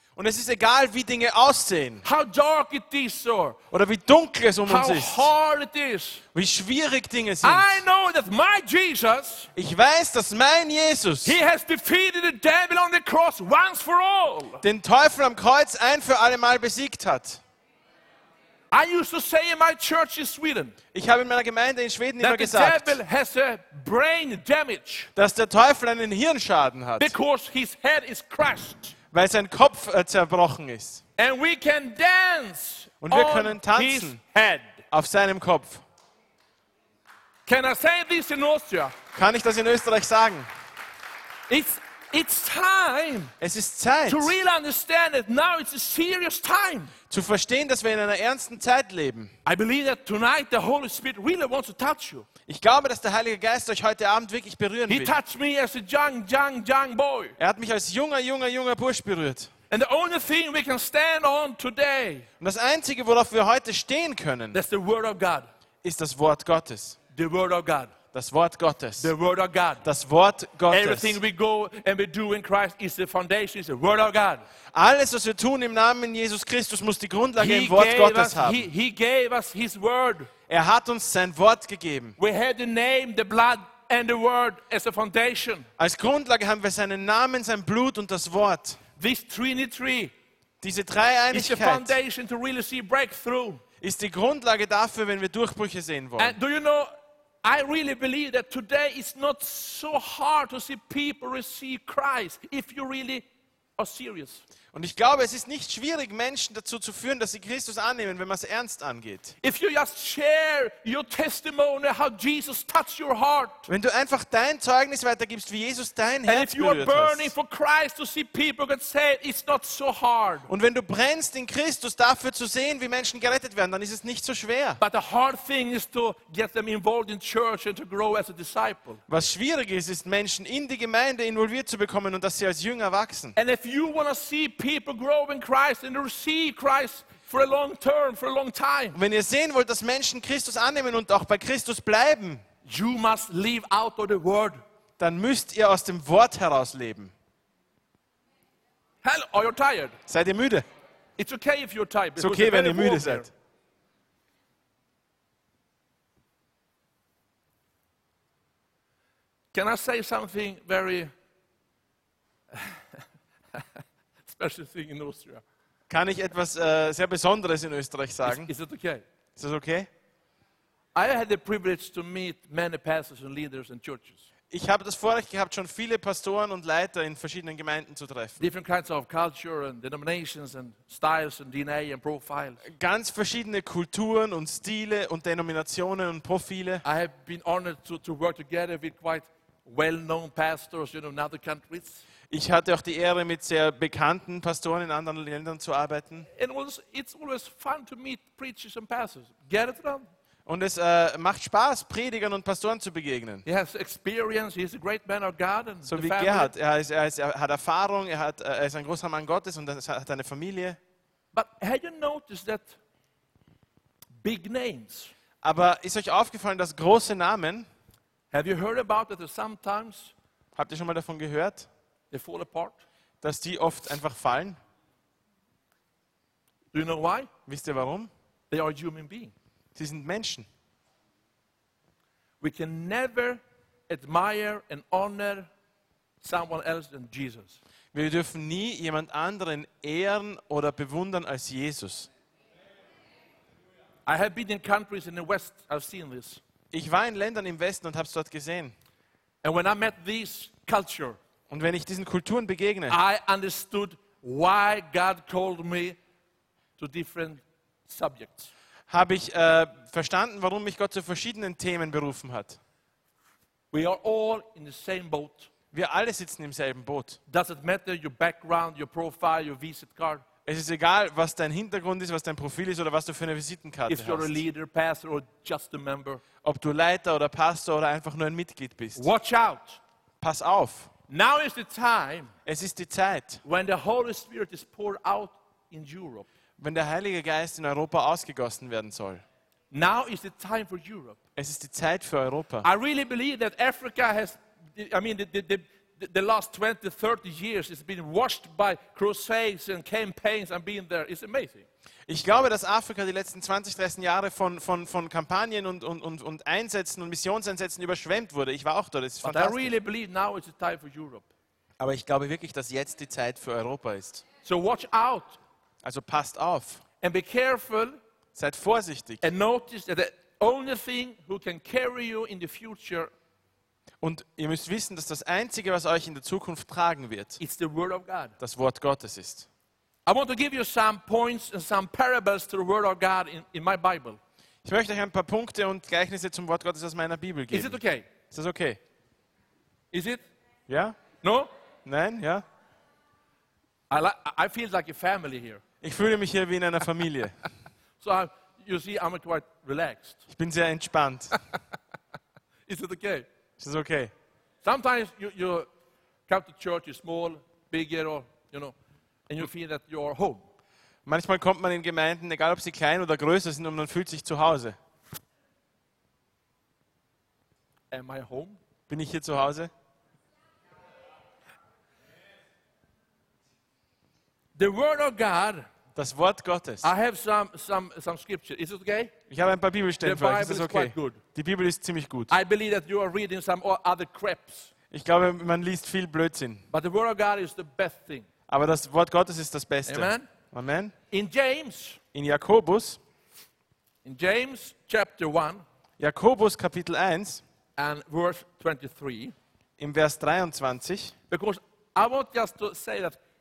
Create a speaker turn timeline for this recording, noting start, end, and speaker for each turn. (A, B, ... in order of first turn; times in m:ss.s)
0:00.2-0:02.0 A
0:02.0-0:03.6 B
0:03.7-0:05.3 A
0:04.6-0:06.2 B
0:06.3-0:07.8 A
0:07.4-0:09.5 B
0:09.5-0:11.4 A
0:11.2-0:14.6 B
0:14.6-0:17.4 A
0:18.7-0:20.7 B
0:20.9-0:23.0 A
0:22.2-0:25.1 B
0:25.2-0:27.1 A
0:27.0-0:28.9 B
0:29.1-0:31.0 A
0:31.2-0:34.8 B
0:33.0-0:34.2 A
0:34.9-0:35.8 A
0:37.4-0:38.9 B
0:39.1-0:40.5 A
0:41.5-0:43.3 B
0:43.4-0:44.3 A
0:44.1-0:46.9 B
0:47.1-0:49.3 A
0:49.4-0:52.2 B
0:52.5-0:55.2 A
0:54.9-0:57.4 B
0:57.4-0:59.5 A
0:59.7-1:02.3 B
1:02.4-1:04.6 A
1:04.5-1:05.5 B
1:05.8-1:07.0 A
1:07.1-1:07.9 B
1:08.1-1:09.1 A
1:09.0-1:09.8 B
1:09.8-1:11.2 A
1:10.7-1:14.4 B
1:14.7-1:18.7 A
1:17.4-1:20.3 B
1:20.5-1:22.2 A
1:22.2-1:25.7 B
1:25.8-1:28.8 A
1:29.0-1:30.1 B
1:30.6-1:32.0 A
1:31.3-1:33.6 B
1:33.8-1:36.4 A
1:36.2-1:36.9 B
1:37.4-1:43.2 B
1:43.8-1:44.4 B
1:44.7-1:49.3 A
1:49.4-1:53.7 B
1:53.7-1:57.3 A
1:56.2-2:00.5 B
2:00.5-2:04.8 A
2:04.8-2:09.0 B
2:09.1-2:13.4 A
2:13.4-2:19.0 B
2:18.9-2:22.4 A
2:22.6-2:24.6 B
2:25.0-2:27.1 A
2:29.0-2:30.0 B
2:30.1-2:30.6 A
2:31.2-2:33.3 B
2:32.2-2:33.3 A
2:39.5-2:41.1 B
2:42.5-2:43.0 B
2:43.5-2:45.4 B
2:45.9-2:48.5 A
2:48.2-2:49.0 B
2:49.4-2:49.9 A
2:50.9-2:54.2 B
2:54.5-2:58.4 A
2:58.4-3:02.6 B
3:02.6-3:06.8 A
3:06.8-3:12.0 B
3:12.3-3:16.3 A
3:16.4-3:20.1 B
3:20.4-3:23.4 A
3:23.4-3:26.5 B
3:25.9-3:30.8 A
3:31.3-3:32.8 B
3:34.2-3:35.1 B
3:35.4-3:37.7 A
3:38.3-3:40.1 B
3:40.6-3:41.7 A
3:42.1-3:42.8 B
3:43.2-3:44.6 A
3:46.7-3:47.3 B
3:47.5-3:48.1 A
3:48.5-3:49.3 B
3:49.8-3:50.5 A
3:52.4-3:55.5 B
3:56.2-3:57.6 B
3:57.9-4:02.1 A
4:04.0-4:06.4 B
4:06.7-4:08.7 A
4:09.4-4:11.2 B
4:11.5-4:13.0 A
4:12.9-4:16.0 B
4:16.8-4:18.5 B
4:18.9-4:22.6 A
4:23.7-4:25.5 B
4:25.7-4:27.2 A
4:27.3-4:30.2 B
4:30.4-4:34.4 A
4:33.9-4:36.2 B
4:36.4-4:39.1 A
4:39.0-4:39.8 B
4:40.2-4:40.9 A
4:41.1-4:42.3 B
4:42.4-4:43.4 A
4:43.4-4:46.3 B
4:46.6-4:49.2 A
4:49.7-4:51.2 B
4:51.4-4:52.7 A
4:52.6-5:01.6 B
5:02.1-5:09.8 A
5:09.2-5:11.3 B
5:11.8-5:14.2 A
5:14.4-5:15.4 B
5:15.8-5:16.8 A
5:17.0-5:18.0 B
5:18.3-5:19.3 A
5:19.2-5:23.1 B
5:24.0-5:27.4 A
5:27.4-5:28.3 B
5:28.4-5:29.5 A
5:30.0-5:34.2 B
5:34.6-5:37.8 A
5:37.5-5:38.1 B
5:38.3-5:38.8 A
5:39.9-5:40.2 B
5:40.7-5:41.0 A
5:41.2-5:41.5 B
5:41.8-5:42.4 A
5:43.9-5:45.6 B
5:45.8-5:47.4 A
5:48.0-5:50.2 B
5:50.3-5:51.4 A
5:52.7-5:53.3 B
5:53.6-5:54.1 A
5:54.6-5:55.7 B
5:56.3-5:58.7 B
5:59.3-6:00.5 B
6:01.0-6:04.8 A
6:07.9-6:08.6 B
6:08.9-6:09.7 A
6:14.6-6:15.7 B
6:15.9-6:16.9 A
6:16.8-6:19.1 B
6:19.3-6:22.3 A
6:20.0-6:21.2 B
6:22.3-6:24.7 B
6:24.9-6:26.6 A
6:26.7-6:28.3 B
6:28.5-6:30.9 A
6:29.8-6:30.3 B
6:31.1-6:32.0 B
6:32.1-6:33.0 A
6:34.0-6:35.6 B
6:36.0-6:37.4 A
6:37.8-6:39.3 B
6:39.8-6:41.1 A
6:41.3-6:43.2 B